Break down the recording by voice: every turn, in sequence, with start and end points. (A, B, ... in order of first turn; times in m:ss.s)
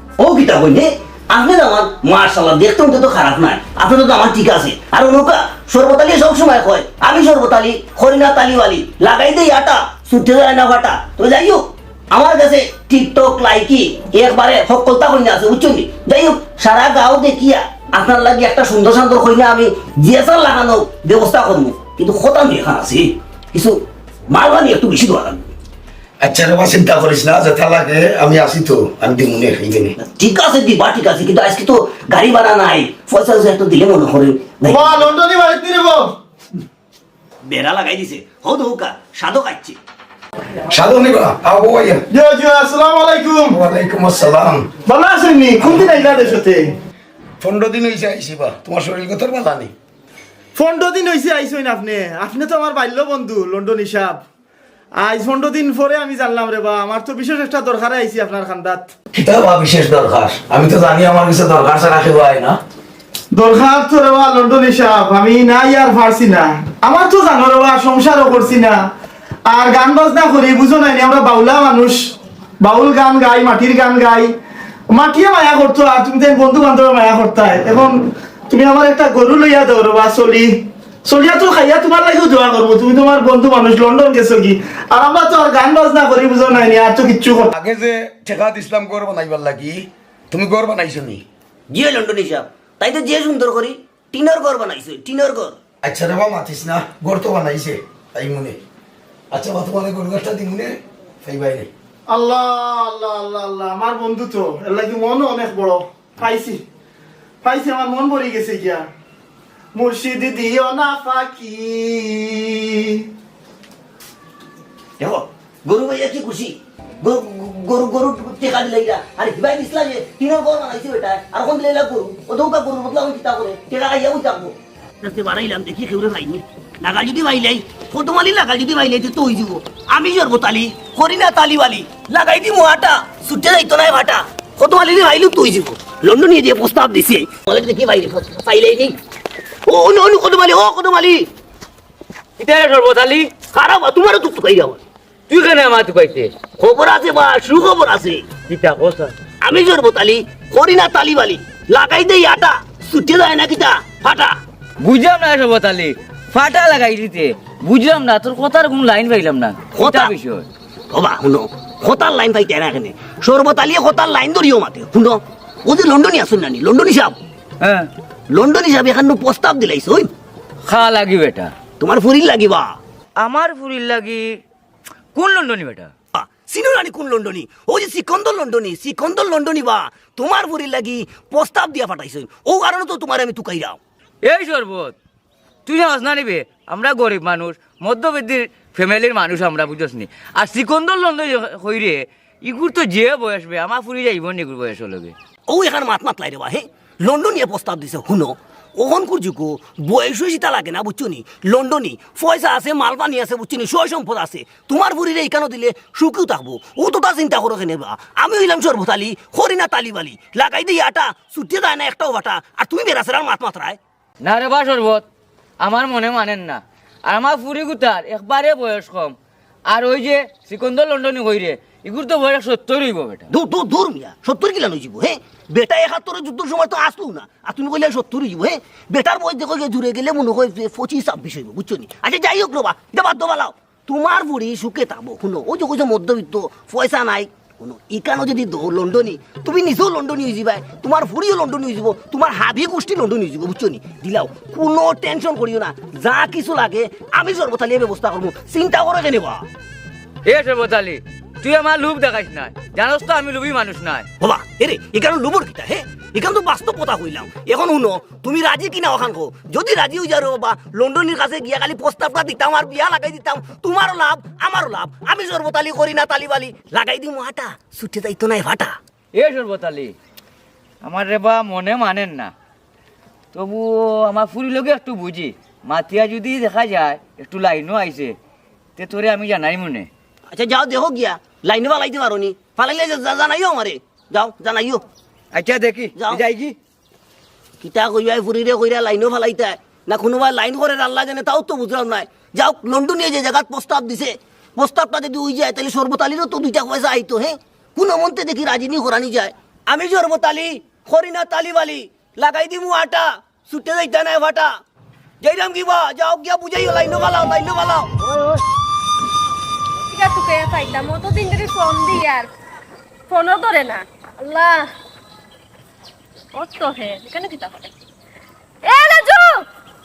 0:00.2-0:23.8 A
0:24.3-0:25.5 A
0:26.2-0:30.0 B
0:30.0-0:35.0 A
0:34.6-0:36.1 C
0:37.4-0:39.8 A
0:40.7-0:42.0 B
0:42.1-0:43.6 C
0:43.5-0:44.7 B
0:44.8-0:46.7 C
0:45.6-0:46.1 B
0:47.4-0:49.7 B
0:50.6-0:54.2 C
0:55.0-0:58.9 C
0:59.1-1:02.6 B
1:03.3-1:08.8 C
1:09.5-1:14.3 C
1:14.9-1:27.5 C
1:27.5-1:31.2 B
1:31.7-1:35.6 A
1:35.8-1:38.6 B
1:39.3-1:41.7 B
1:42.1-1:46.6 C
1:47.4-1:48.8 C
1:49.7-1:53.0 C
1:55.0-2:19.0 A
2:19.7-2:21.3 A
2:22.4-2:23.3 D
2:23.5-2:24.8 A
2:25.3-2:26.4 D
2:26.6-2:28.3 A
2:28.4-2:29.2 D
2:29.4-2:34.4 A
2:34.8-2:40.4 D
2:39.7-2:40.1 A
2:40.9-2:47.2 A
2:47.6-2:47.9 D
2:48.3-2:50.1 A
2:50.6-2:51.5 D
2:51.8-2:52.8 A
2:53.2-2:54.4 D
2:55.1-2:55.9 D
2:56.1-3:03.8 A
3:04.2-3:05.0 D
3:05.6-3:15.1 D
3:15.5-3:33.8 A
3:34.2-3:35.1 D
3:35.6-3:39.2 D
3:39.7-3:43.3 D
3:43.3-4:09.4 A
4:10.2-4:14.1 D
4:14.2-4:28.8 A
4:29.1-4:29.9 D
4:30.8-4:32.3 D
4:33.3-4:38.2 D
4:38.8-4:39.9 D
4:40.3-4:44.8 A
4:45.3-4:46.6 D
4:46.0-4:46.2 A
4:47.6-5:04.6 A
5:05.2-5:07.9 A
5:08.0-5:08.4 C
5:09.9-5:12.3 E
5:13.1-5:14.7 E
5:16.3-5:17.7 E
5:18.6-5:19.4 E